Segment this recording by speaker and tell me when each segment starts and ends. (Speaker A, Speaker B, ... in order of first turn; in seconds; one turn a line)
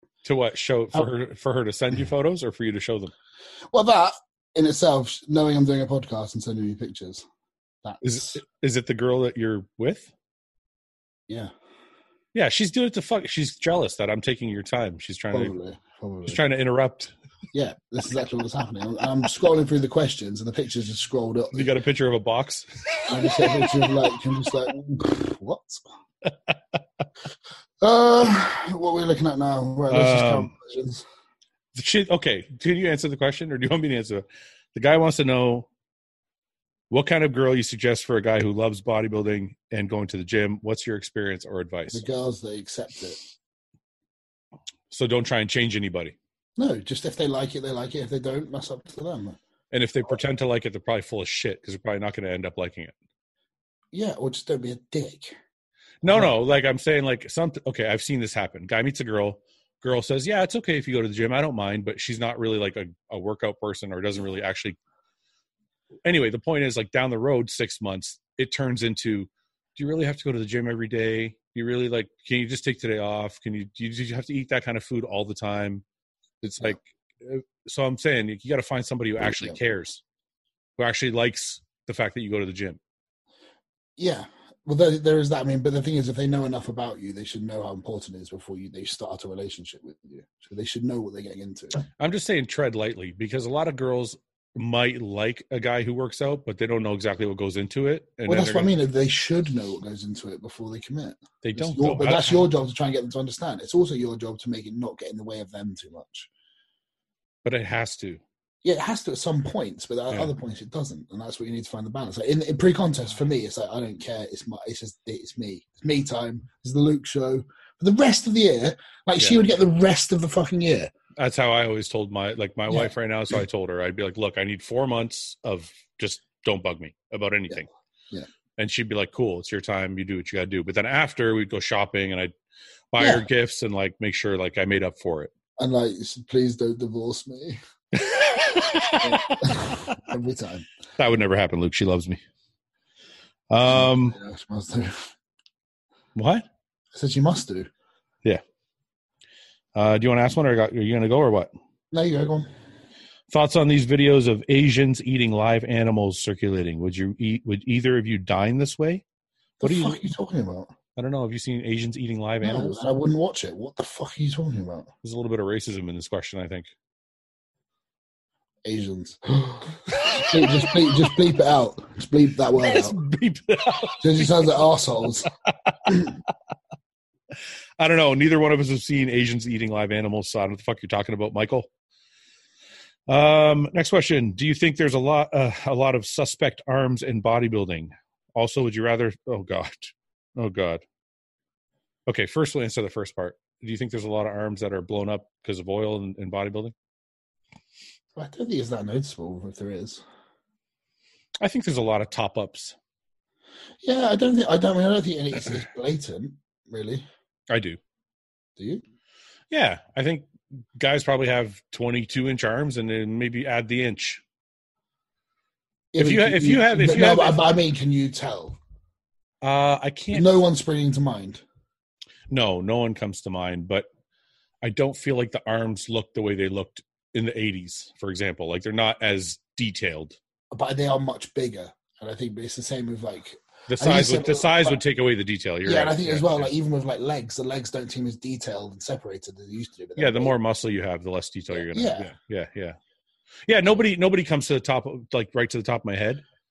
Speaker A: 0.2-3.1
Speaker B: 3.7-7.2
Speaker B: 7.8-8.4
Speaker A: 8.0-10.1
Speaker A: 12.3-15.5
Speaker B: 15.3-16.4
Speaker A: 16.3-17.1
Speaker B: 17.5-21.7
Speaker A: 21.5-23.8
Speaker B: 23.1-25.8
Speaker B: 27.8-31.0
Speaker A: 29.9-30.5
Speaker A: 31.7-35.7
Speaker A: 36.9-42.0
Speaker B: 41.9-43.2
Speaker A: 44.9-46.1
Speaker B: 46.6-49.4
Speaker A: 49.7-52.9
Speaker B: 53.9-55.4
Speaker B: 56.0-56.3
Speaker A: 56.0-64.8
Speaker A: 66.0-75.8
Speaker A: 76.4-80.0
Speaker B: 79.2-79.6
Speaker A: 80.8-82.8
Speaker B: 84.0-91.8
Speaker A: 92.0-98.7
Speaker B: 98.3-106.3
Speaker A: 101.4-102.5
Speaker A: 107.4-108.2
Speaker B: 108.6-120.9
Speaker A: 121.2-127.7
Speaker A: 128.6-132.3
Speaker A: 132.9-135.3
Speaker B: 133.0-133.2
Speaker B: 135.6-137.6
Speaker A: 137.9-139.7
Speaker B: 139.0-140.7
Speaker A: 141.0-142.2
Speaker A: 143.5-144.2
Speaker B: 143.6-145.1
Speaker A: 146.2-146.4
Speaker B: 146.9-147.7
Speaker A: 149.7-151.5
Speaker B: 151.9-152.5
Speaker A: 153.3-159.0
Speaker B: 159.6-160.7
Speaker A: 159.6-160.0
Speaker A: 160.9-162.8
Speaker B: 162.4-164.9
Speaker A: 165.0-166.7
Speaker B: 168.6-172.9
Speaker A: 169.9-170.7
Speaker A: 172.6-174.6
Speaker B: 174.0-175.3
Speaker A: 175.4-176.1
Speaker B: 175.9-176.1
Speaker A: 177.8-181.7
Speaker A: 183.1-190.8
Speaker A: 192.1-196.7
Speaker B: 198.1-200.0
Speaker A: 201.4-202.8
Speaker B: 203.8-207.1
Speaker A: 207.5-207.8
Speaker B: 208.6-208.8
Speaker A: 209.5-214.2
Speaker B: 215.9-218.6
Speaker A: 216.0-217.4
Speaker A: 219.4-220.3
Speaker B: 220.1-221.4
Speaker A: 222.3-223.9
Speaker A: 224.6-230.2
Speaker B: 230.5-234.8
Speaker A: 233.7-236.5
Speaker B: 235.6-240.3
Speaker A: 240.0-242.8
Speaker B: 241.5-242.1
Speaker A: 243.5-246.2